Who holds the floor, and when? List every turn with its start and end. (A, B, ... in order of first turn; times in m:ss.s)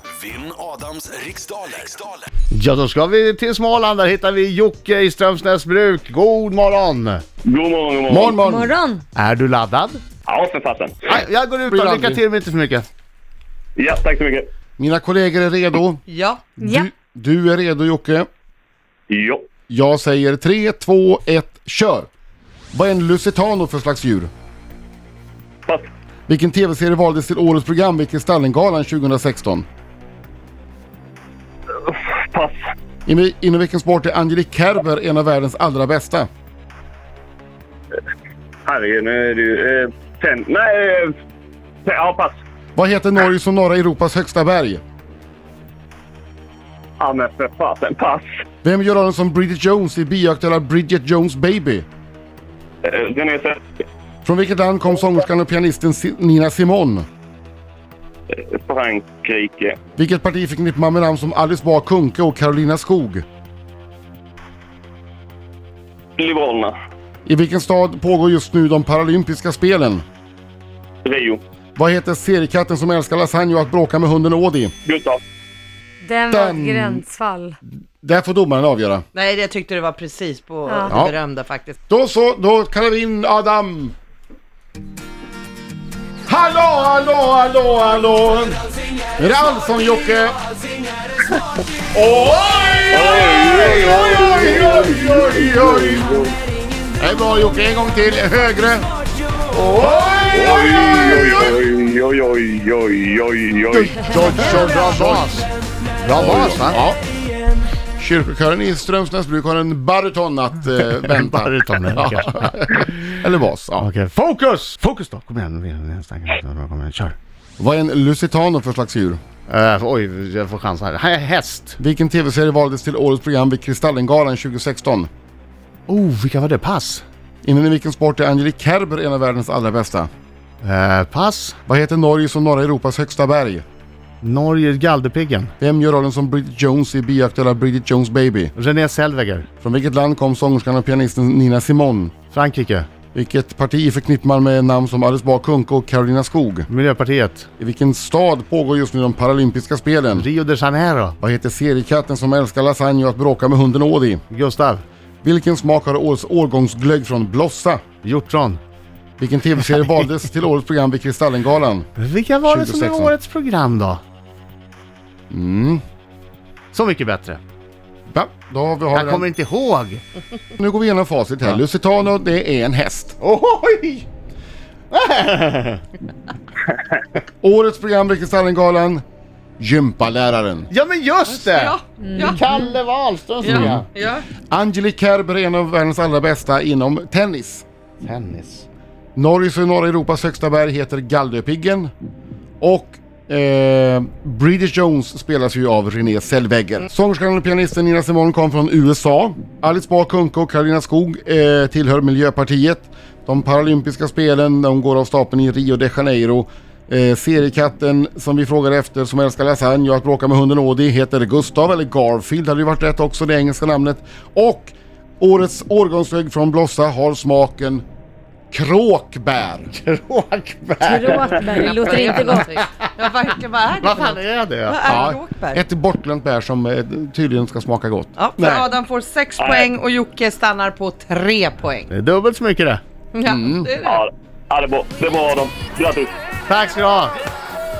0:00.2-0:02.2 A
0:02.5-0:07.2 B
0:07.4-0:08.4 C
0:08.1-0:08.8 D
0:08.4-0:09.0 E
0:09.2-0:10.0 B
0:10.2-0:10.9 C
0:11.1-0:12.9 B
0:11.7-0:12.2 D
0:13.8-0:14.5 C
0:14.8-0:16.0 D
0:16.1-0:16.6 F
0:16.6-0:16.9 E
0:16.6-0:18.3 D
0:19.1-0:19.4 C
0:19.7-0:22.1 D
0:22.7-0:24.3 D
0:26.3-0:29.6 D
0:31.8-0:32.6 C
0:33.0-0:36.3 D
0:38.6-0:41.1 C
0:41.8-0:42.4 C
0:42.8-0:44.8 D
0:47.0-0:48.2 C
0:48.6-0:51.8 D
0:52.8-0:53.6 C
0:54.2-0:57.0 D
0:58.3-0:59.8 C
1:00.0-1:03.2 D
1:06.2-1:06.7 C
1:07.2-1:10.0 D
1:11.0-1:11.4 C
1:11.8-1:14.7 D
1:14.8-1:15.2 C
1:16.0-1:17.6 E
1:16.3-1:17.0 D
1:18.0-1:19.0 D
1:19.1-1:21.8 F
1:20.7-1:21.0 E
1:21.9-1:23.9 D
1:26.3-1:28.6 D
1:29.2-1:30.4 D
1:31.9-1:36.1 D
1:32.9-1:36.3 C
1:37.0-1:38.9 D
1:39.6-1:40.6 B
1:39.8-1:41.5 D
1:40.3-1:44.3 C
1:43.7-1:45.4 D
1:44.1-1:45.4 B
1:46.0-1:46.8 B
1:46.1-1:47.0 D
1:48.0-1:53.9 D
1:50.8-1:52.9 B
1:53.8-1:57.2 B
1:57.6-1:59.2 D
1:59.5-2:01.8 B
2:01.8-2:05.1 D
2:05.9-2:07.0 B
2:07.4-2:10.1 D
2:10.6-2:11.6 B
2:11.6-2:13.6 D
2:14.2-2:15.5 B
2:15.6-2:18.5 D
2:18.6-2:19.5 B
2:19.6-2:22.1 D
2:22.3-2:22.9 B
2:23.1-2:26.7 D
2:26.7-2:27.5 B
2:27.6-2:30.3 D
2:30.1-2:31.2 B
2:31.2-2:34.2 D
2:34.3-2:34.8 B
2:35.2-2:37.8 D
2:38.0-2:38.6 B
2:39.2-2:41.9 D
2:42.0-2:44.0 B
2:42.4-2:43.1 D
2:45.3-2:45.8 D
2:46.7-2:47.4 B
2:48.1-2:49.3 D
2:48.9-2:50.0 B
2:50.6-2:53.2 D
2:53.2-2:54.1 B
2:54.9-2:55.8 B
2:57.4-2:59.0 D
2:59.6-3:00.7 D
3:00.7-3:03.9 B
3:01.3-3:02.4 F
3:02.0-3:02.3 E
3:03.4-3:04.2 F
3:03.5-3:03.8 D
3:04.5-3:07.6 D
3:08.0-3:08.6 B
3:09.2-3:11.9 D
3:12.6-3:37.8 D
3:38.5-3:39.7 D
3:39.7-3:42.8 B
3:40.8-3:42.5 E
3:41.5-3:45.6 F
3:43.8-3:45.0 B
3:44.8-3:48.7 D
3:48.2-3:51.9 F
3:49.4-3:49.7 C
3:51.9-3:52.8 B
3:53.1-3:54.0 F
3:53.2-3:53.7 D
3:53.8-3:56.1 C
3:56.5-3:57.1 B